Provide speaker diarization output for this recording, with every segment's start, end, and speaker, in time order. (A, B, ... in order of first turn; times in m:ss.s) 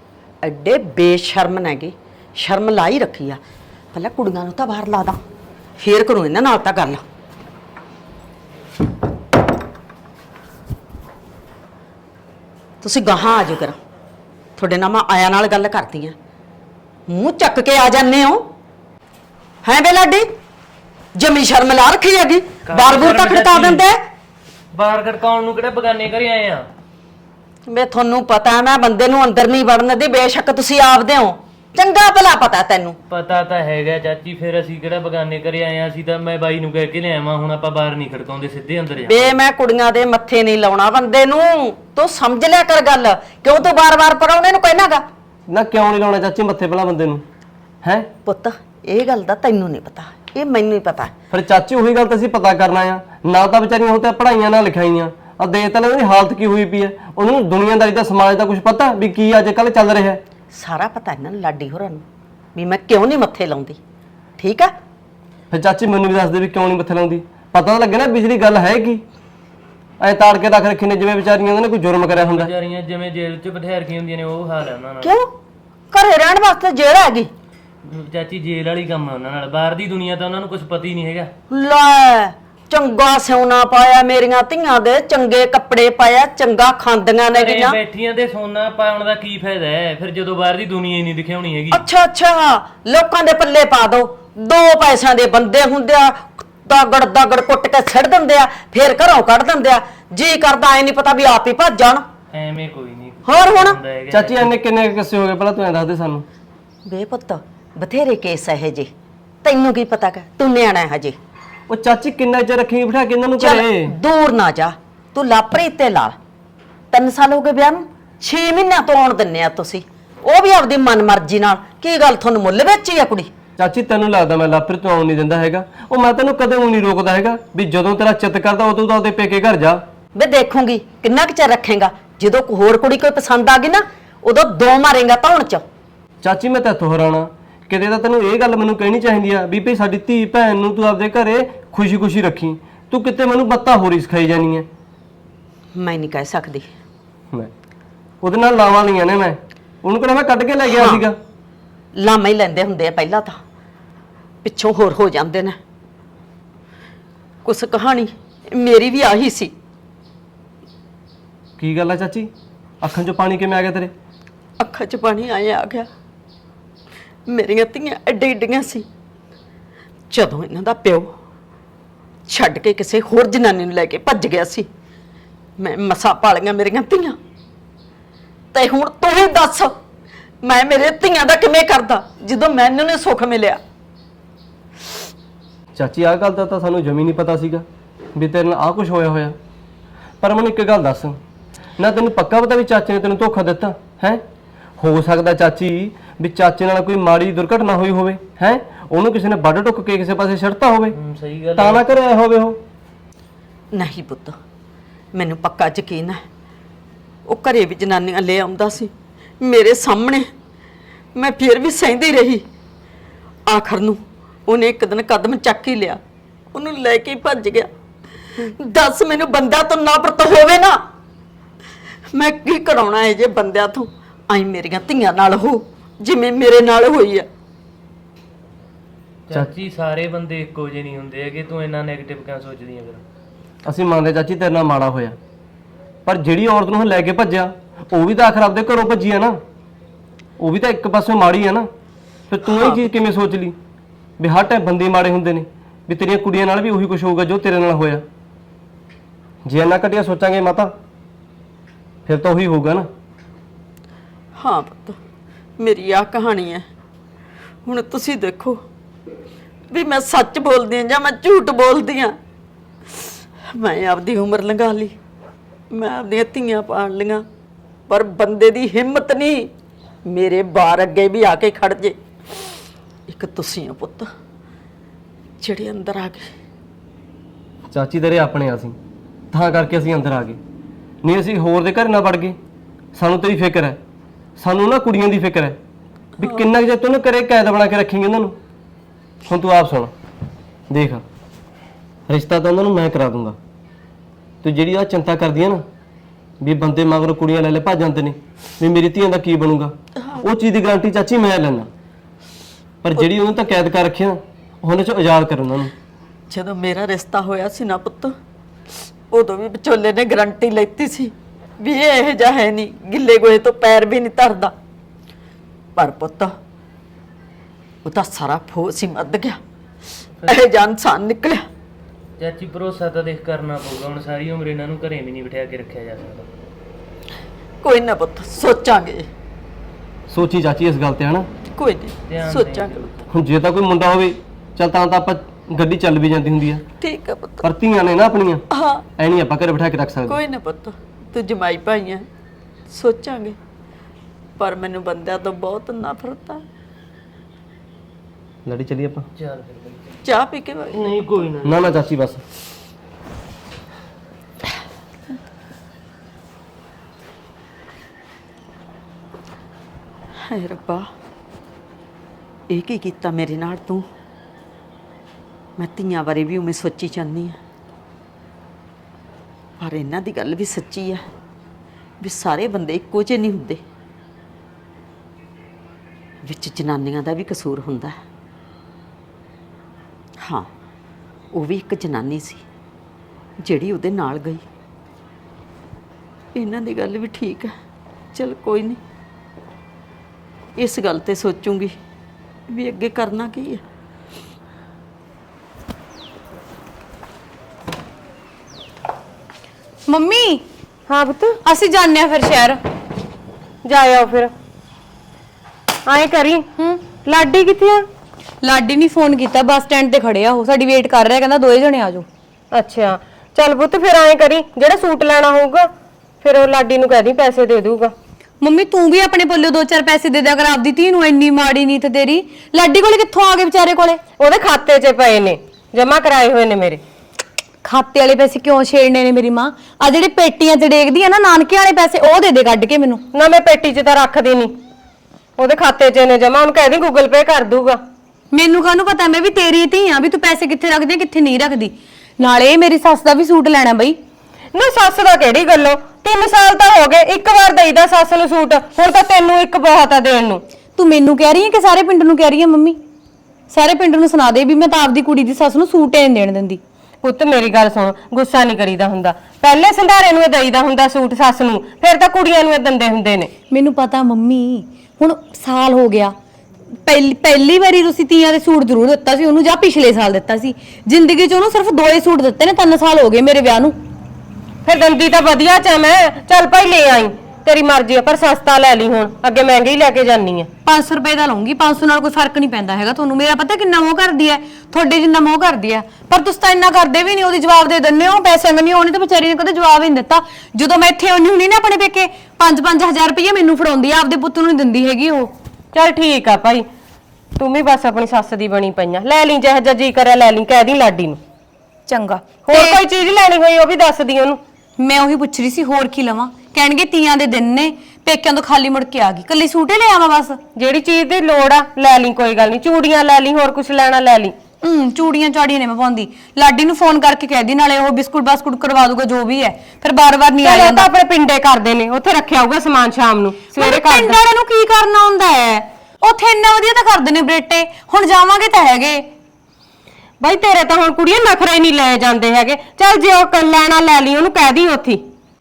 0:00.4-0:03.4 A
0:03.9-0:05.2 A
0:05.8-0:07.0 A
0:12.8-0:13.8 A
0:14.6-0:16.1 A
0:17.1-0:18.5 A
0:19.6-0:20.3 A
0:21.1-0:24.0 A
0:22.7-0:23.8 B
0:24.7-0:26.6 B
0:27.7-0:33.0 A
0:33.1-0:39.4 B
0:39.0-0:45.0 A
0:45.5-0:47.2 C
0:47.8-0:48.1 C
0:48.2-0:51.1 A
0:51.3-1:00.2 C
1:00.5-1:02.0 A
1:02.5-1:03.8 A
1:04.4-1:04.7 A
1:05.5-1:09.0 C
1:10.0-1:12.5 C
1:12.1-1:15.2 B
1:15.0-1:15.3 A
1:15.9-1:17.3 A
1:17.8-1:21.3 B
1:21.5-1:27.8 A
1:27.3-1:31.8 B
1:31.7-1:42.0 A
1:42.3-1:44.6 B
1:43.2-1:43.8 A
1:44.1-1:46.2 C
1:46.8-1:48.9 A
1:49.4-1:51.2 A
1:51.7-1:53.9 C
1:53.4-1:56.2 A
1:56.9-2:03.3 A
2:03.6-2:09.8 C
2:10.2-2:15.6 A
2:16.2-2:24.7 C
2:25.8-2:26.7 A
2:28.2-2:31.2 C
2:30.6-2:31.0 A
2:32.0-2:33.4 A
2:34.4-2:35.6 A
2:37.4-2:39.5 A
2:41.6-2:42.3 C
2:42.8-2:43.9 C
2:44.6-2:45.9 A
2:47.3-2:48.8 A
2:50.1-2:51.1 A
2:52.3-2:54.7 A
2:55.6-2:57.2 A
2:58.5-2:59.8 A
3:00.4-3:03.6 A
3:05.8-3:07.6 C
3:08.2-3:09.4 C
3:10.2-3:11.2 C
3:11.8-3:14.2 C
3:14.8-3:20.9 C
3:20.9-3:21.9 B
3:21.6-3:22.6 C
3:23.7-3:24.4 A
3:25.1-3:26.2 A
3:27.3-3:28.9 A
3:29.4-3:30.3 A
3:31.2-3:32.4 A
3:33.5-3:36.0 A
3:36.5-3:37.7 A
3:38.4-3:40.8 A
3:42.1-3:47.3 A
3:49.3-3:53.0 B
3:53.7-3:55.2 C
3:56.1-3:59.4 C
4:00.4-4:01.7 C
4:02.3-4:03.6 C
4:02.5-4:02.9 A
4:04.2-4:08.0 C
4:09.4-4:10.7 C
4:12.1-4:12.9 C
4:14.4-4:15.0 A
4:15.6-4:16.7 A
4:17.7-4:18.6 A
4:19.7-4:22.2 A
4:23.5-4:24.9 A
4:25.7-4:27.2 A
4:27.9-4:29.5 A
4:30.1-4:32.0 A
4:33.1-4:34.1 A
4:35.4-4:36.3 A
4:37.7-4:38.8 C
4:39.3-4:40.4 C
4:41.0-4:42.4 C
4:42.9-4:43.8 C
4:44.4-4:45.6 C
4:46.2-4:48.4 C
4:46.2-4:46.5 A
4:49.3-4:49.9 C
4:50.7-4:51.0 C
4:52.1-4:53.4 C
4:54.4-4:55.6 C
4:56.4-5:01.7 C
5:02.8-5:05.7 C
5:06.3-5:08.1 A
5:09.1-5:14.5 A
5:15.8-5:16.3 A
5:17.8-5:19.4 A
5:20.3-5:21.4 A
5:22.2-5:26.3 B
5:27.6-5:29.1 A
5:30.1-5:31.3 C
5:31.6-5:33.0 A
5:32.1-5:32.9 B
5:33.1-5:36.6 C
5:36.8-5:37.4 A
5:37.4-5:38.4 C
5:38.5-5:38.8 A
5:39.0-5:40.2 C
5:40.1-5:42.1 A
5:42.7-5:43.4 A
5:44.4-5:46.4 A
5:48.4-5:49.1 C
5:49.2-5:50.0 B
5:50.0-5:51.0 A
5:50.7-5:51.8 B
5:51.4-5:52.2 C
6:00.2-6:00.9 A
6:02.5-6:03.9 A
6:05.6-6:07.4 A
6:09.6-6:11.0 A
6:12.0-6:13.6 A
6:16.2-6:18.0 A
6:20.2-6:20.5 A
6:21.3-6:22.4 A
6:23.4-6:24.4 A
6:26.4-6:27.5 A
6:28.1-6:28.8 A
6:30.6-6:31.8 A
6:32.5-6:33.6 A
6:39.9-6:40.4 D
6:40.9-6:41.4 E
6:41.4-6:42.6 D
6:43.6-6:44.3 E
6:45.9-6:47.9 E
6:48.4-6:52.1 D
6:52.5-6:55.7 E
6:56.2-6:57.9 E
6:58.4-7:04.0 D
7:04.2-7:06.8 E
7:07.6-7:13.0 D
7:13.1-7:14.5 E
7:15.4-7:17.8 E
7:18.3-7:24.0 D
7:24.5-7:30.4 E
7:30.8-7:32.8 D
7:33.5-7:36.6 D
7:37.0-7:43.3 E
7:43.5-7:46.1 D
7:46.9-7:53.8 D
7:54.6-8:00.5 E
8:00.6-8:15.3 D
8:15.7-8:16.7 E
8:17.4-8:21.2 E
8:21.9-8:22.8 D
8:22.4-8:24.4 E
8:24.8-8:30.4 D
8:30.6-8:34.3 E
8:34.6-8:40.9 D
8:40.4-8:44.2 E
8:43.6-8:49.1 D
8:50.2-8:55.0 E